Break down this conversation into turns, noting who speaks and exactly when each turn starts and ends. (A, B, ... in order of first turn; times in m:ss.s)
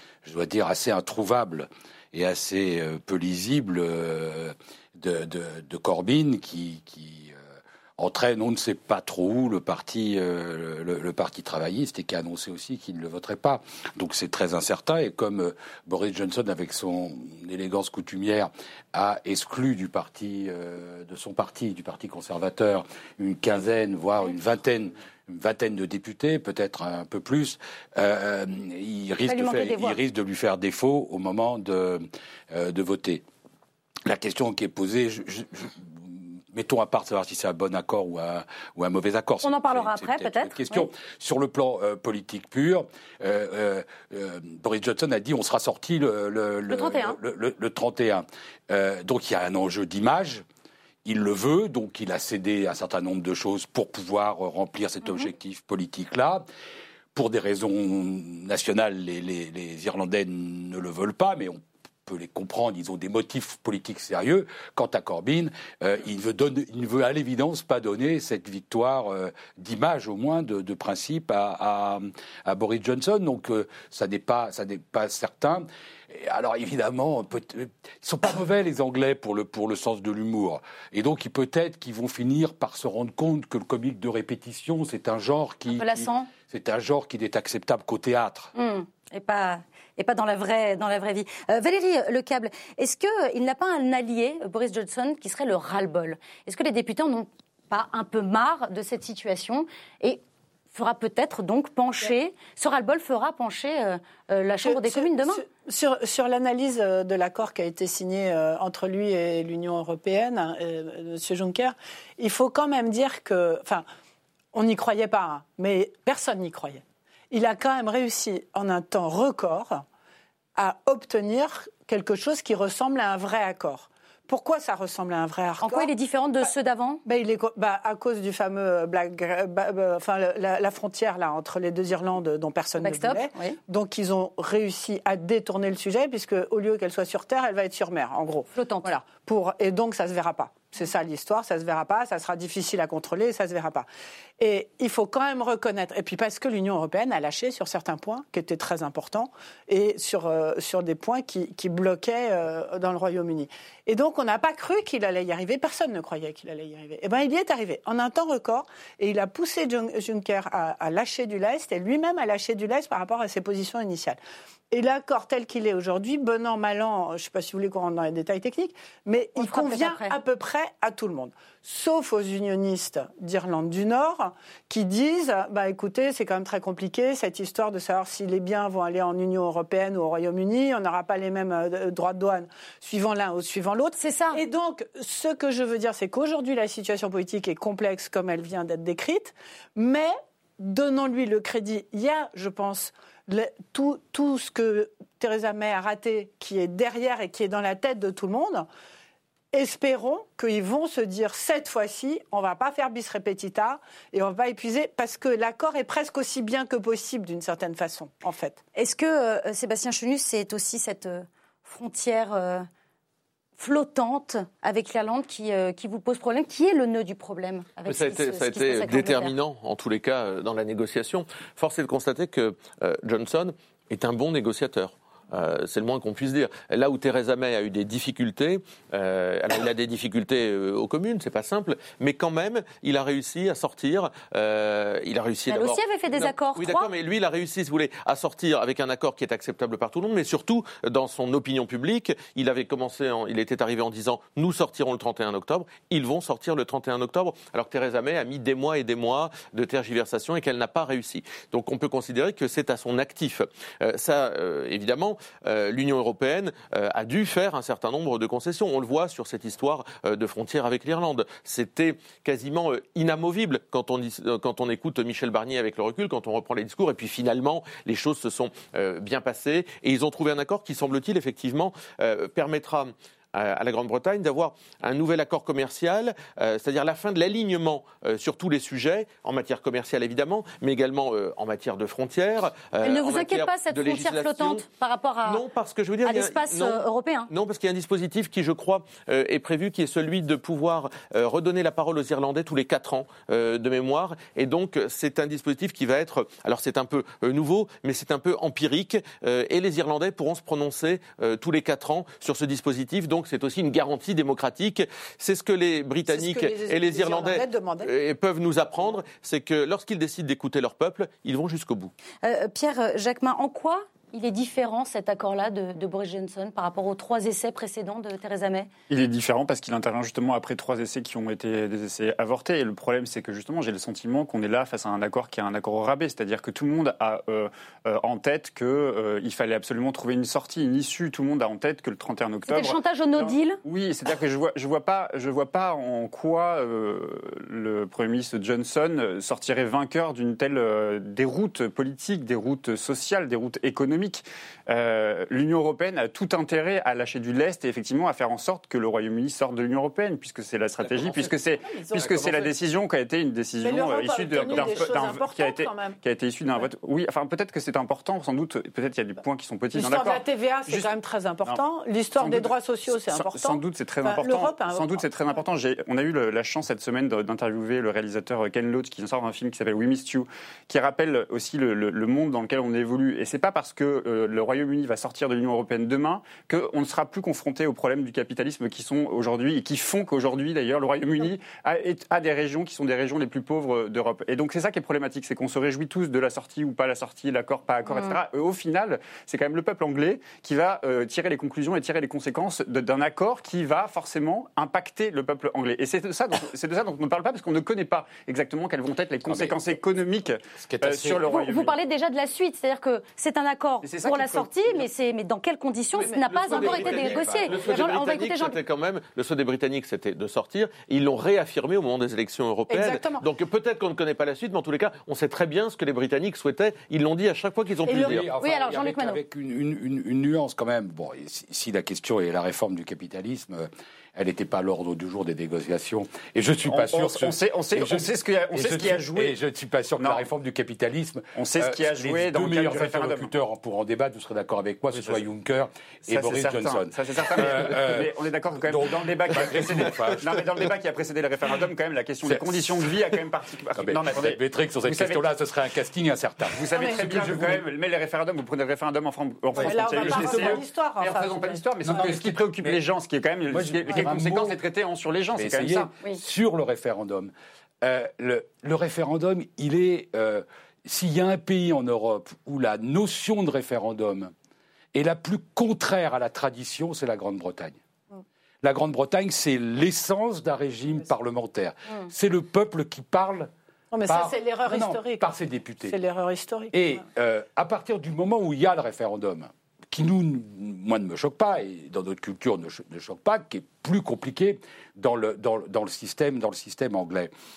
0:00.2-0:07.4 A
0:08.0-0:33.2 A
0:29.3-0:30.0 B
0:34.0-0:50.4 A
0:39.4-0:40.9 B
0:46.7-0:47.2 B
0:51.0-0:56.4 A
0:57.1-1:28.5 A
1:25.7-1:26.3 B
1:28.5-1:45.4 B
1:44.6-1:53.8 C
1:54.5-1:59.8 C
2:00.6-2:05.9 C
2:05.6-2:07.0 B
2:07.0-2:23.9 C
2:12.8-2:13.6 B
2:18.5-2:18.9 B
2:24.4-2:44.2 C
2:44.7-3:18.7 C
2:49.4-2:50.1 B
3:04.0-3:04.4 B
3:19.5-3:28.6 C
3:28.7-3:32.7 B
3:33.6-3:39.3 B
3:37.9-4:44.6 D
3:55.5-3:56.9 B
4:42.8-4:45.4 B
4:45.2-5:11.9 D
4:46.0-4:47.3 B
5:06.1-5:07.9 C
5:12.2-5:18.7 B
5:18.9-6:00.9 E
5:32.4-5:33.6 B
5:50.8-5:51.3 D
5:51.7-5:52.3 C
5:52.0-5:52.4 D
5:53.6-5:56.0 C
5:59.7-6:05.1 C
6:02.1-6:41.8 E
6:27.9-6:28.2 B
6:39.3-6:39.8 A
6:40.6-6:41.4 A
6:41.2-6:48.6 B
6:43.8-6:44.8 E
6:46.0-6:58.3 D
6:46.5-6:47.5 A
6:52.7-6:53.2 C
6:57.9-7:20.4 A
6:57.9-6:58.2 C
6:58.4-6:59.2 B
7:06.6-7:09.4 E
7:10.0-7:10.2 E
7:11.3-7:13.3 E
7:16.1-7:25.2 E
7:22.2-7:22.9 A
7:23.8-7:27.6 A
7:26.5-7:35.9 E
7:26.7-7:27.3 C
7:29.5-7:30.6 A
7:29.5-7:32.1 C
7:31.8-7:32.8 A
7:33.5-7:34.6 A
7:35.3-7:44.3 A
7:44.9-7:47.8 A
7:48.6-7:53.5 A
7:53.9-7:55.3 C
7:54.1-7:56.0 A
7:55.8-7:56.9 C
7:56.7-8:07.3 A